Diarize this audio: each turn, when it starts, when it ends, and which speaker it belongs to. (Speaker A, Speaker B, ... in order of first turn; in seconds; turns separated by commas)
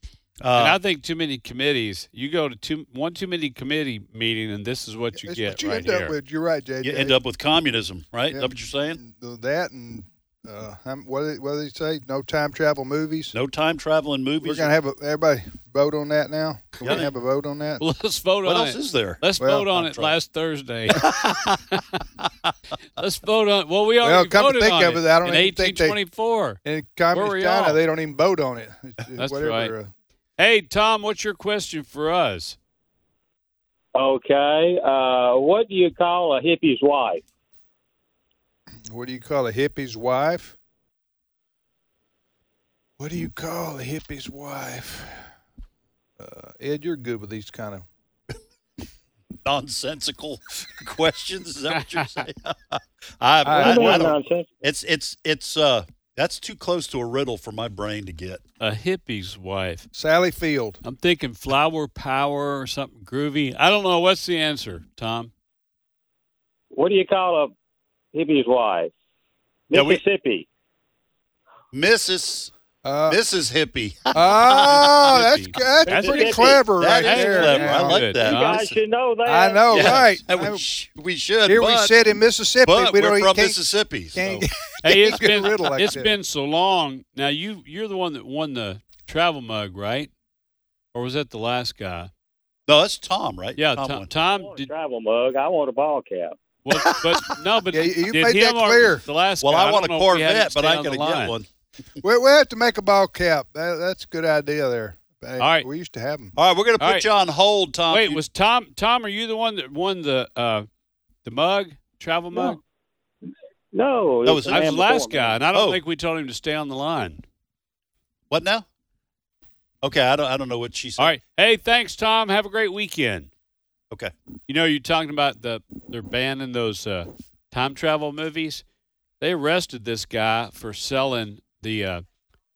Speaker A: 0.4-0.8, Speaker B: 0.5-6.1, Speaker C: 5.1-7.2, Speaker A: 6.8-9.0, Speaker C: 8.3-13.3, Speaker A: 13.3-14.7, Speaker C: 14.4-17.8, Speaker A: 16.8-17.1, Speaker B: 17.8-21.1, Speaker A: 18.4-20.1, Speaker C: 19.4-19.7, Speaker A: 21.0-21.6, Speaker B: 23.0-26.6, Speaker C: 24.0-26.0, Speaker C: 26.6-29.9, Speaker B: 27.1-27.8, Speaker B: 29.2-29.7, Speaker B: 30.4-32.5, Speaker D: 33.9-37.2, Speaker C: 38.9-40.5, Speaker C: 43.0-45.3, Speaker C: 46.2-47.9, Speaker A: 49.4-58.4, Speaker B: 52.0-52.2, Speaker C: 53.4-54.1, Speaker D: 53.5-54.5, Speaker B: 58.6-59.9, Speaker C: 59.9-60.8, Speaker B: 60.8-65.3, Speaker D: 66.7-67.5, Speaker D: 68.1-68.9, Speaker D: 69.7-70.5, Speaker A: 69.7-70.0, Speaker A: 71.7-72.5, Speaker C: 72.8-73.2, Speaker A: 73.1-74.8, Speaker C: 74.1-78.1, Speaker B: 75.0-78.5, Speaker D: 75.9-76.6, Speaker A: 76.0-78.8, Speaker D: 78.2-79.8, Speaker C: 79.2-80.7, Speaker A: 79.7-81.9, Speaker C: 81.5-83.6, Speaker A: 82.6-84.5, Speaker C: 84.1-86.1, Speaker B: 84.8-90.1, Speaker B: 90.9-92.1, Speaker A: 92.7-94.1, Speaker B: 93.5-94.7, Speaker D: 94.3-96.3, Speaker B: 96.6-101.3, Speaker C: 97.7-99.0, Speaker A: 99.4-101.5, Speaker C: 102.0-106.3, Speaker B: 105.4-105.7, Speaker A: 106.3-108.2, Speaker B: 106.8-107.1, Speaker B: 107.9-110.7, Speaker B: 111.2-112.6, Speaker D: 113.7-115.3, Speaker A: 114.2-114.6, Speaker B: 114.5-117.2, Speaker A: 115.5-115.8, Speaker A: 118.3-118.6, Speaker A: 119.8-121.2, Speaker B: 121.0-123.3, Speaker B: 124.5-128.6, Speaker B: 129.2-132.0